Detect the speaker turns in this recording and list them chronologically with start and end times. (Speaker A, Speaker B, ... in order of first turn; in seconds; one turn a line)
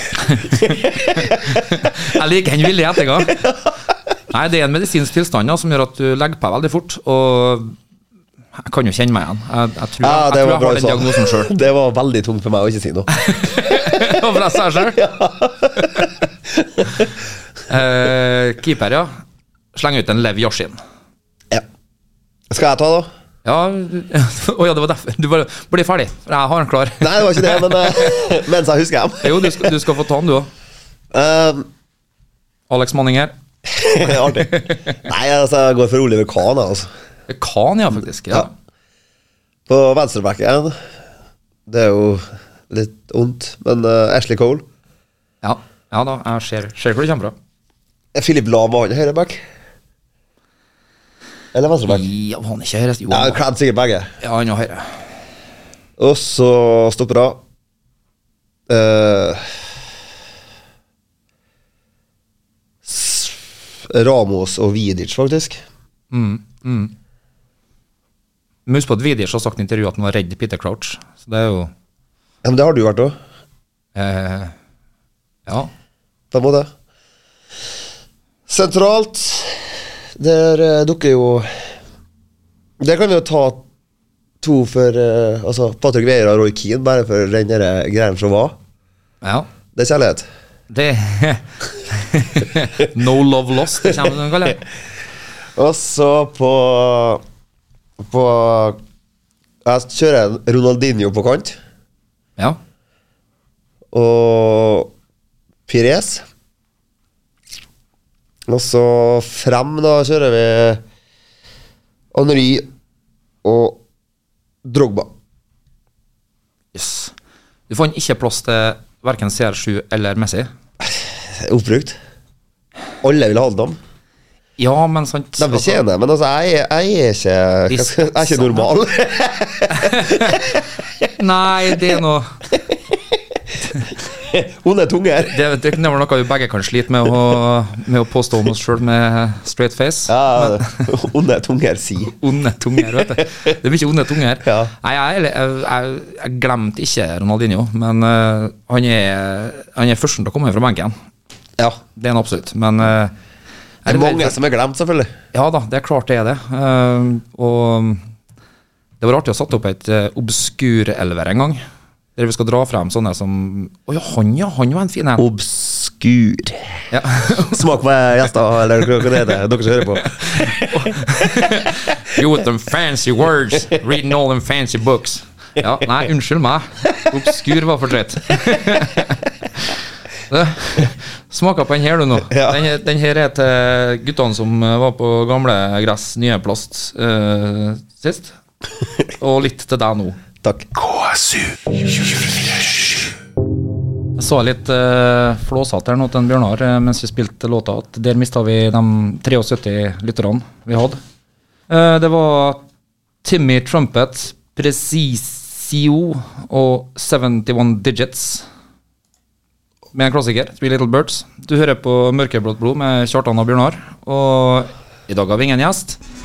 Speaker A: 0.2-3.5
Speaker B: 0.4-1.6
Speaker A: 4.3-7.7
Speaker A: 8.6-11.5
Speaker B: 10.0-13.1
Speaker A: 13.1-15.0
Speaker B: 14.9-17.1
Speaker A: 15.8-16.1
Speaker A: 17.7-19.1
Speaker A: 19.7-20.8
Speaker B: 22.5-23.1
Speaker A: 23.4-28.1
Speaker B: 27.0-29.7
Speaker A: 29.2-30.5
Speaker B: 31.1-31.7
Speaker A: 32.7-33.3
Speaker B: 33.7-36.9
Speaker A: 34.0-35.0
Speaker A: 37.3-38.5
Speaker B: 39.7-40.8
Speaker B: 41.7-44.6
Speaker A: 45.4-47.4
Speaker B: 48.1-49.4
Speaker B: 51.5-52.1
Speaker A: 51.9-53.4
Speaker B: 53.1-54.1
Speaker A: 54.2-55.0
Speaker B: 56.0-57.4
Speaker B: 58.7-59.5
Speaker B: 62.9-65.6
Speaker A: 66.1-66.9
Speaker A: 68.7-71.7
Speaker B: 72.4-73.2
Speaker A: 74.0-74.5
Speaker B: 76.3-76.7
Speaker B: 78.5-81.7
Speaker B: 82.8-83.6
Speaker B: 84.4-88.6
Speaker A: 89.2-89.5
Speaker B: 89.8-90.3
Speaker A: 90.7-94.6
Speaker B: 95.6-97.2
Speaker B: 98.0-98.8
Speaker B: 99.7-101.6
Speaker B: 103.9-104.9
Speaker B: 105.7-106.2
Speaker B: 108.5-110.8
Speaker B: 112.1-112.7
Speaker B: 113.4-113.8
Speaker B: 114.6-115.1
Speaker A: 116.7-117.1
Speaker A: 117.7-120.5
Speaker B: 120.8-122.0
Speaker B: 123.0-123.8
Speaker A: 124.6-125.8
Speaker B: 125.4-130.7
Speaker A: 127.7-128.7
Speaker A: 129.7-130.4
Speaker A: 131.2-132.3
Speaker B: 132.7-133.4
Speaker B: 134.0-135.4
Speaker A: 135.2-140.9
Speaker B: 140.1-142.2
Speaker A: 142.1-150.9
Speaker B: 143.0-143.2
Speaker B: 144.4-144.7
Speaker A: 151.9-153.2
Speaker A: 153.8-154.4
Speaker B: 153.9-155.1
Speaker A: 155.3-158.0
Speaker A: 159.0-161.6
Speaker A: 162.2-165.2
Speaker B: 165.2-166.8
Speaker A: 166.9-167.7
Speaker B: 167.5-170.9
Speaker A: 170.1-179.7
Speaker A: 180.3-188.3
Speaker B: 182.3-182.6
Speaker A: 189.2-190.2
Speaker B: 190.4-191.4
Speaker A: 194.2-201.0
Speaker A: 201.7-202.6
Speaker A: 203.2-208.4
Speaker A: 209.9-216.0